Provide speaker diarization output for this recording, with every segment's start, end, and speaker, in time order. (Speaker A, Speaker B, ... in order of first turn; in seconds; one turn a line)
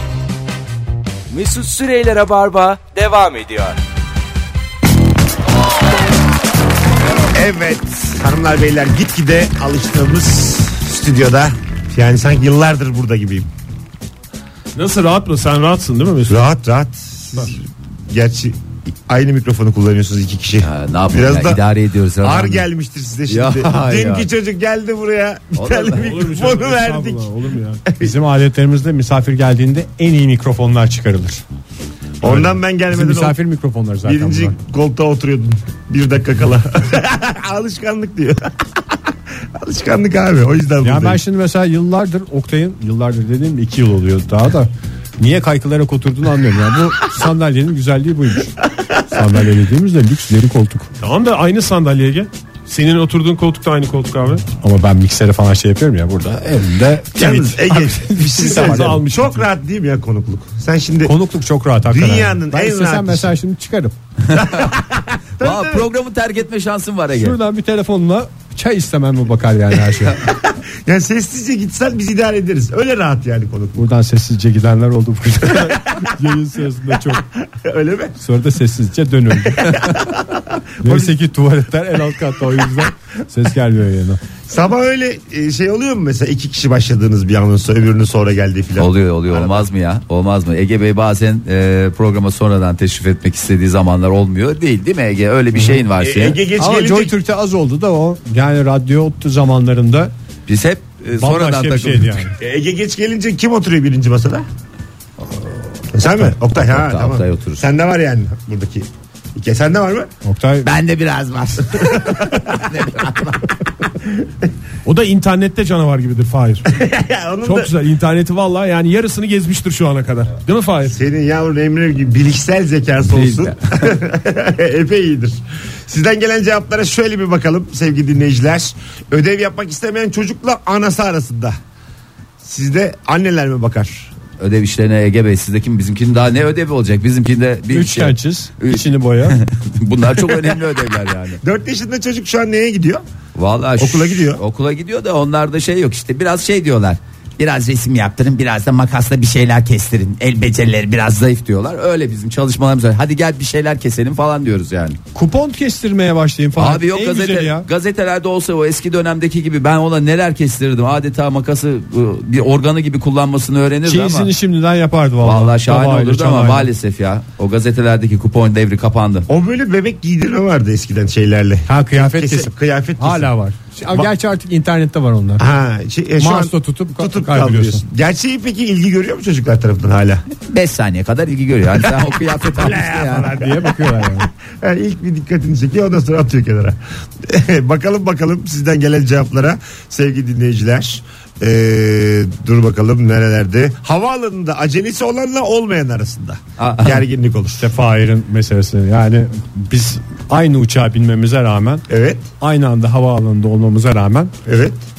Speaker A: 1.3-3.8
Speaker B: 7.3-13.5
Speaker C: 14.7-16.5
Speaker B: 16.3-21.6
Speaker D: 20.6-22.6
Speaker B: 22.2-27.3
Speaker D: 23.3-24.3
Speaker D: 25.5-26.1
Speaker C: 26.0-27.8
Speaker B: 27.8-28.1
Speaker E: 28.0-31.4
Speaker B: 32.2-33.4
Speaker E: 32.2-34.5
Speaker B: 34.0-38.5
Speaker B: 39.5-41.2
Speaker E: 40.8-44.7
Speaker E: 45.2-50.9
Speaker B: 48.8-49.0
Speaker C: 51.0-54.4
Speaker E: 54.6-59.0
Speaker B: 57.1-61.1
Speaker C: 58.4-59.5
Speaker E: 61.0-64.0
Speaker B: 61.9-63.3
Speaker B: 64.3-65.8
Speaker D: 65.4-67.4
Speaker E: 67.1-70.2
Speaker B: 70.2-73.9
Speaker E: 73.8-77.2
Speaker B: 77.1-78.2
Speaker E: 78.2-79.8
Speaker B: 79.6-81.1
Speaker E: 80.8-84.2
Speaker B: 84.5-89.6
Speaker D: 88.8-96.4
Speaker B: 96.0-97.1
Speaker E: 96.6-100.1
Speaker D: 100.5-102.2
Speaker E: 101.2-102.3
Speaker B: 102.4-104.5
Speaker B: 105.9-110.1
Speaker D: 106.5-107.6
Speaker E: 110.2-110.7
Speaker D: 110.6-113.5
Speaker B: 111.6-113.2
Speaker B: 113.8-114.4
Speaker C: 114.8-116.7
Speaker B: 116.7-117.7
Speaker C: 117.4-121.0
Speaker B: 120.9-131.6
Speaker D: 123.1-124.0
Speaker B: 132.4-134.1
Speaker D: 134.4-141.4
Speaker E: 137.7-139.4
Speaker B: 140.2-140.6
Speaker B: 141.4-143.0
Speaker D: 143.3-155.0
Speaker B: 143.8-144.4
Speaker E: 155.1-157.7
Speaker D: 156.6-164.3
Speaker E: 163.8-166.7
Speaker D: 165.2-169.3
Speaker B: 169.3-173.3
Speaker E: 171.7-175.4
Speaker B: 175.4-180.2
Speaker E: 176.2-177.8
Speaker D: 180.5-183.3
Speaker B: 182.5-197.7
Speaker E: 183.1-184.3
Speaker D: 196.6-197.0
Speaker E: 197.6-201.8
Speaker B: 201.9-202.2
Speaker E: 202.4-204.3
Speaker B: 204.4-204.8